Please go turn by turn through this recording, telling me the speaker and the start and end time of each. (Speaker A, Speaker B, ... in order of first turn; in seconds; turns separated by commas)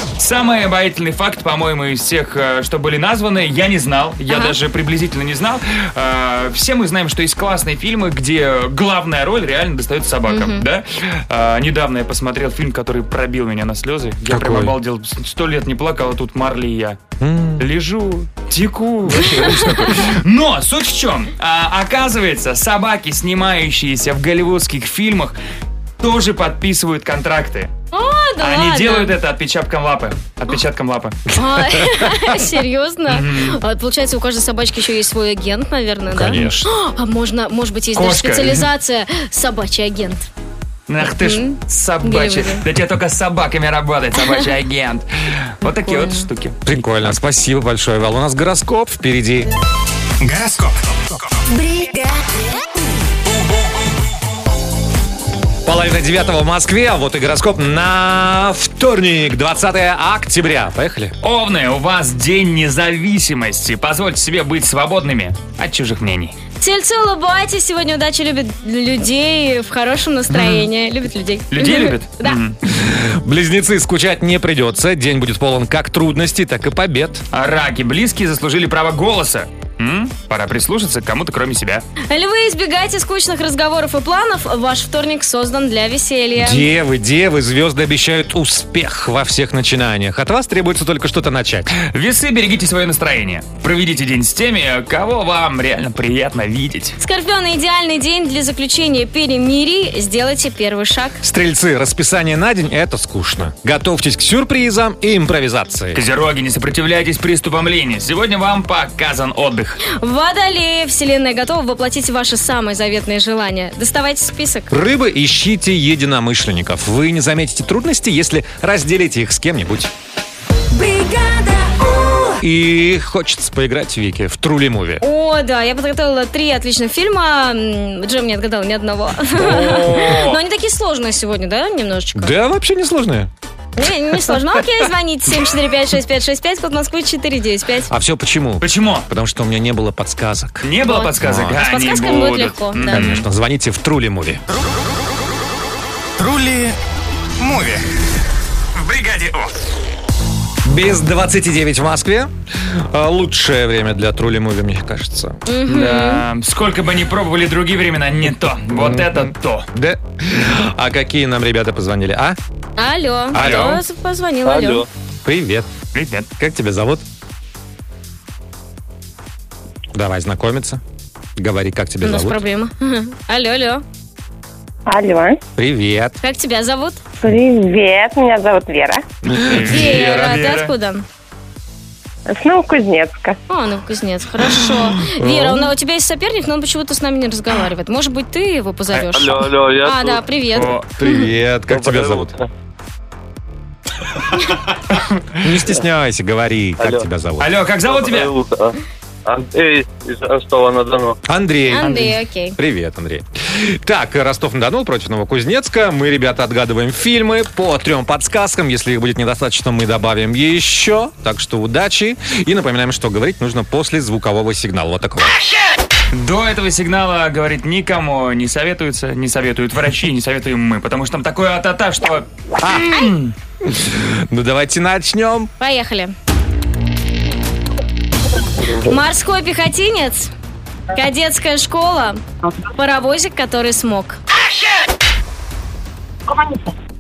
Speaker A: 0.2-17.0, Speaker B: 4.3-4.6, Speaker B: 10.3-10.6, Speaker C: 14.3-14.7, Speaker C: 17.2-17.6, Speaker A: 17.6-25.4, Speaker C: 19.3-19.8, Speaker A: 26.0-27.7, Speaker B: 27.9-29.1, Speaker A: 28.4-31.3, Speaker B: 31.4-40.3, Speaker A: 33.1-33.6, Speaker C: 36.1-36.7, Speaker A: 38.0-38.7, Speaker A: 40.9-46.6, Speaker B: 41.2-42.6, Speaker B: 45.7-46.3, Speaker C: 46.6-49.5, Speaker D: 50.2-51.4, Speaker C: 55.6-61.1, Speaker A: 61.2-66.3, Speaker B: 66.6-72.4, Speaker A: 70.3-70.7, Speaker A: 71.5-72.6, Speaker C: 72.7-77.2, Speaker A: 77.3-81.9, Speaker B: 82.1-86.7, Speaker C: 86.4-91.7, Speaker A: 91.8-97.0, Speaker B: 97.0-101.2, Speaker C: 101.2-106.0, Speaker A: 105.9-109.8, Speaker B: 109.8-114.7, Speaker C: 114.7-119.9, Speaker B: 120.8-121.8, Speaker C: 122.4-125.0, Speaker B: 125.0-132.3, Speaker A: 129.4-130.4, Speaker C: 132.2-133.3, Speaker B: 133.8-137.9, Speaker C: 137.9-141.6, Speaker A: 138.6-139.1, Speaker A: 140.6-143.3, Speaker B: 140.8-143.1, Speaker C: 142.8-144.4, Speaker D: 146.2-146.8, Speaker D: 147.4-147.8, Speaker D: 148.8-149.5, Speaker C: 150.7-155.4, Speaker B: 155.5-156.2, Speaker A: 155.7-159.7, Speaker C: 158.7-162.4, Speaker B: 162.8-164.8, Speaker C: 163.3-163.8, Speaker A: 163.3-163.8, Speaker E: 164.4-164.9, Speaker C: 165.2-165.7, Speaker A: 165.9-166.3, Speaker C: 166.4-167.1, Speaker C: 169.9-170.8, Speaker C: 171.4-172.4, Speaker B: 172.0-173.8, Speaker F: 174.9-175.4, Speaker C: 175.6-176.2, Speaker B: 176.2-177.0, Speaker F: 177.2-179.0, Speaker A: 179.3-180.7, Speaker B: 179.7-181.1, Speaker F: 182.3-183.4, Speaker B: 183.5-190.8, Speaker C: 185.2-185.7, Speaker E: 189.1-190.2, Speaker A: 190.6-190.9, Speaker C: 191.0-192.3, Speaker E: 191.7-192.5, Speaker C: 195.4-197.5, Speaker E: 196.8-197.1, Speaker A: 197.4-198.3, Speaker E: 197.8-201.2, Speaker C: 201.3-215.4, Speaker B: 201.7-202.6, Speaker A: 216.1-223.3, Speaker C: 222.6-222.9, Speaker C: 223.6-225.5, Speaker B: 225.6-226.1, Speaker B: 228.8-230.3, Speaker B: 230.9-232.2, Speaker B: 232.8-234.2